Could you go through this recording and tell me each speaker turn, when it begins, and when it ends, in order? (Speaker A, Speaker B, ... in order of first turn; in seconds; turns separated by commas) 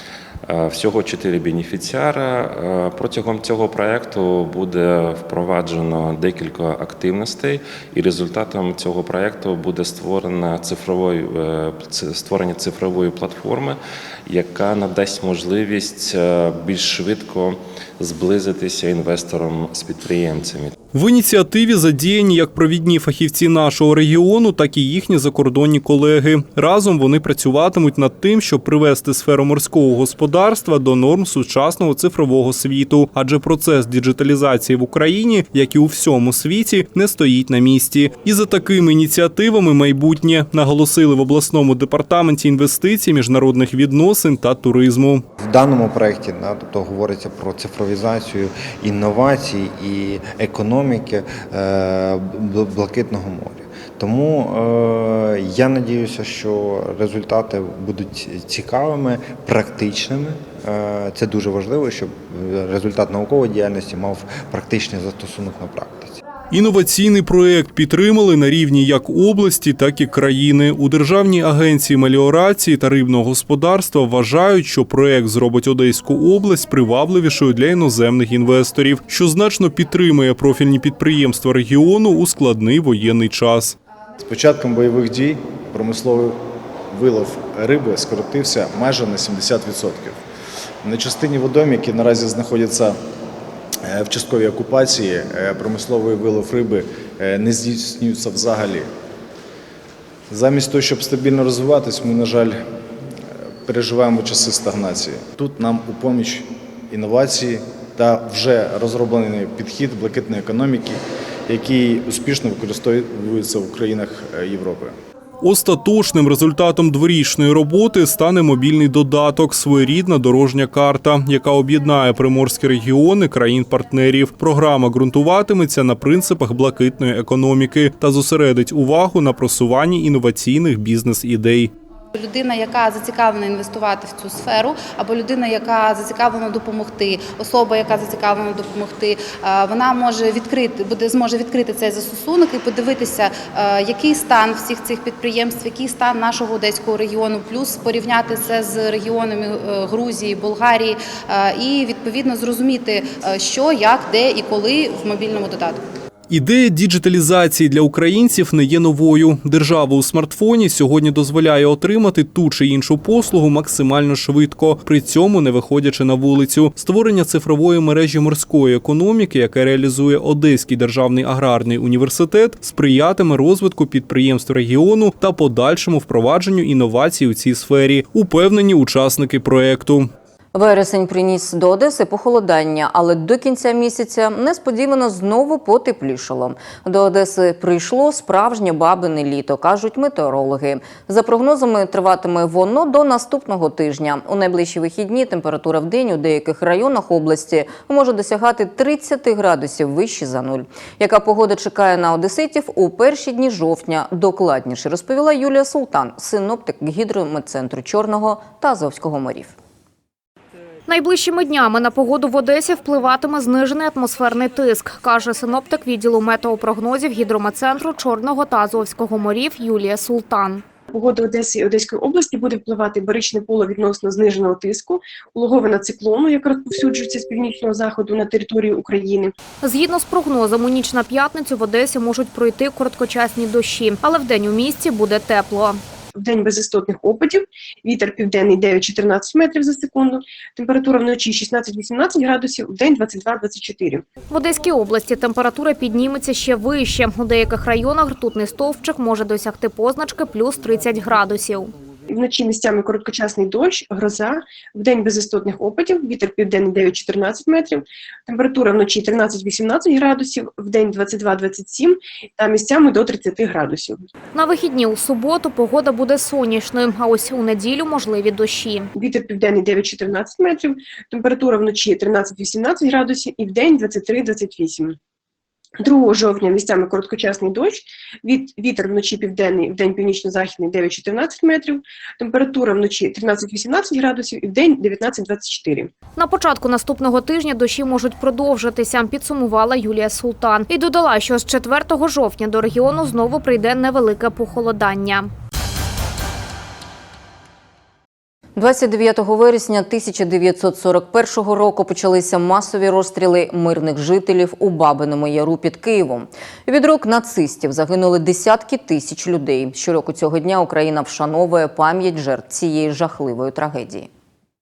Speaker A: 0.5-20.8, Speaker B: 20.9-45.2, Speaker C: 45.4-66.2, Speaker B: 66.5-83.8, Speaker D: 84.2-86.4, Speaker D: 86.9-90.2, Speaker D: 90.8-93.0, Speaker D: 93.8-98.9, Speaker D: 100.3-102.6, Speaker D: 103.7-115.0, Speaker B: 115.4-131.7, Speaker E: 132.2-155.8, Speaker B: 156.3-180.1, Speaker F: 180.5-209.6, Speaker G: 210.9-220.6, Speaker H: 220.9-229.3, Speaker G: 229.6-235.8, Speaker H: 236.2-244.1, Speaker G: 244.3-251.7, Speaker H: 252.1-264.0, Speaker G: 264.3-268.9, Speaker H: 268.9-275.0, Speaker H: 275.8-285.9, Speaker G: 286.2-295.3, Speaker F: 298.6-314.1